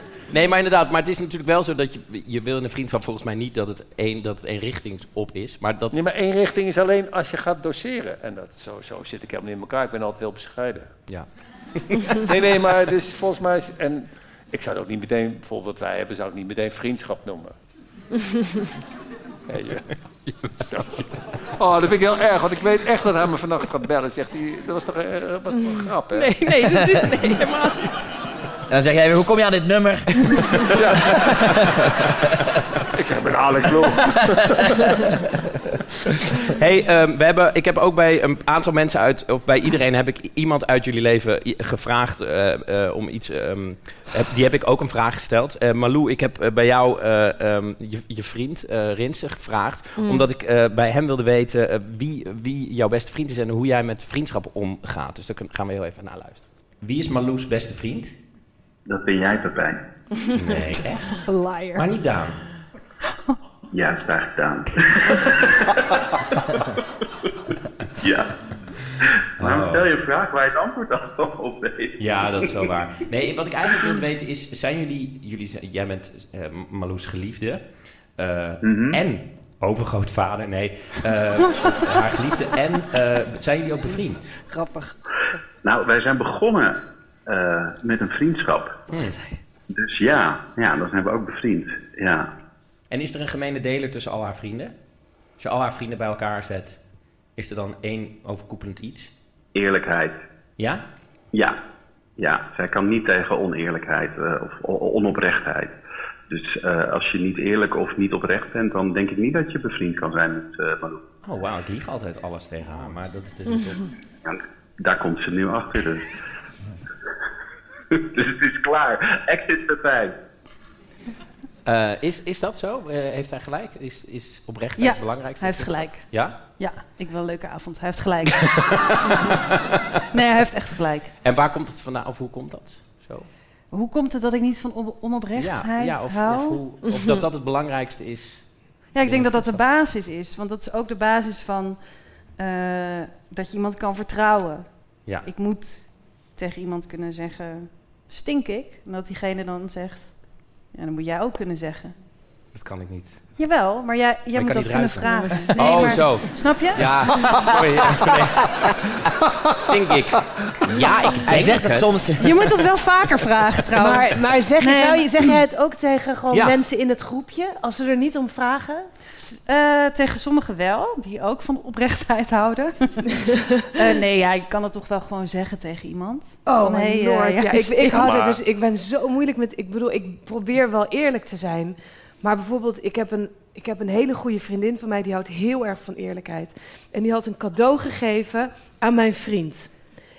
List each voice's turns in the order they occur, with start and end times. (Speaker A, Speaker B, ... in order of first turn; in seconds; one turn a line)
Speaker A: 0.3-6.0
Speaker B: 5.9-11.0
Speaker A: 11.1-12.0
Speaker B: 12.2-17.6
Speaker B: 19.5-19.9
Speaker A: 20.3-20.7
Speaker B: 20.6-26.3
Speaker A: 26.2-28.1
Speaker C: 26.5-27.2
Speaker D: 28.7-32.0
Speaker B: 30.7-31.6
Speaker B: 32.9-34.8
Speaker D: 34.7-35.1
Speaker A: 36.5-58.1
Speaker E: 50.0-50.3
Speaker F: 58.9-59.8
Speaker A: 60.4-62.4
Speaker C: 61.2-61.9
Speaker F: 63.7-65.4
Speaker F: 68.0-68.3
Speaker F: 69.4-72.7
Speaker A: 69.4-69.9
Speaker A: 72.0-84.3
Speaker F: 78.6-79.0
Speaker C: 84.5-84.8
Speaker F: 85.6-89.0
Speaker A: 88.9-89.2
Speaker F: 89.7-92.3
Speaker A: 92.9-94.8
Speaker A: 95.4-99.1
Speaker F: 99.5-100.2
Speaker A: 100.6-100.8
Speaker F: 101.3-101.6
Speaker F: 102.2-105.8
Speaker F: 106.3-111.0
Speaker A: 111.2-113.9
Speaker F: 114.2-116.1
Speaker F: 118.1-120.1
Speaker A: 121.7-126.4
Speaker C: 124.8-128.8
Speaker C: 130.1-131.1
Speaker A: 131.2-133.3
Speaker C: 133.7-136.6
Speaker A: 135.4-139.6
Speaker E: 136.8-137.2
Speaker C: 138.9-152.0
Speaker A: 152.5-153.3
Speaker C: 153.4-156.8
Speaker A: 154.3-162.2
Speaker E: 155.0-156.3
Speaker D: 161.3-162.3
Speaker C: 162.2-165.4
Speaker E: 163.8-169.4
Speaker A: 166.3-166.6
Speaker C: 169.5-173.0
Speaker C: 173.7-178.1
Speaker E: 176.4-189.8
Speaker B: 178.0-178.4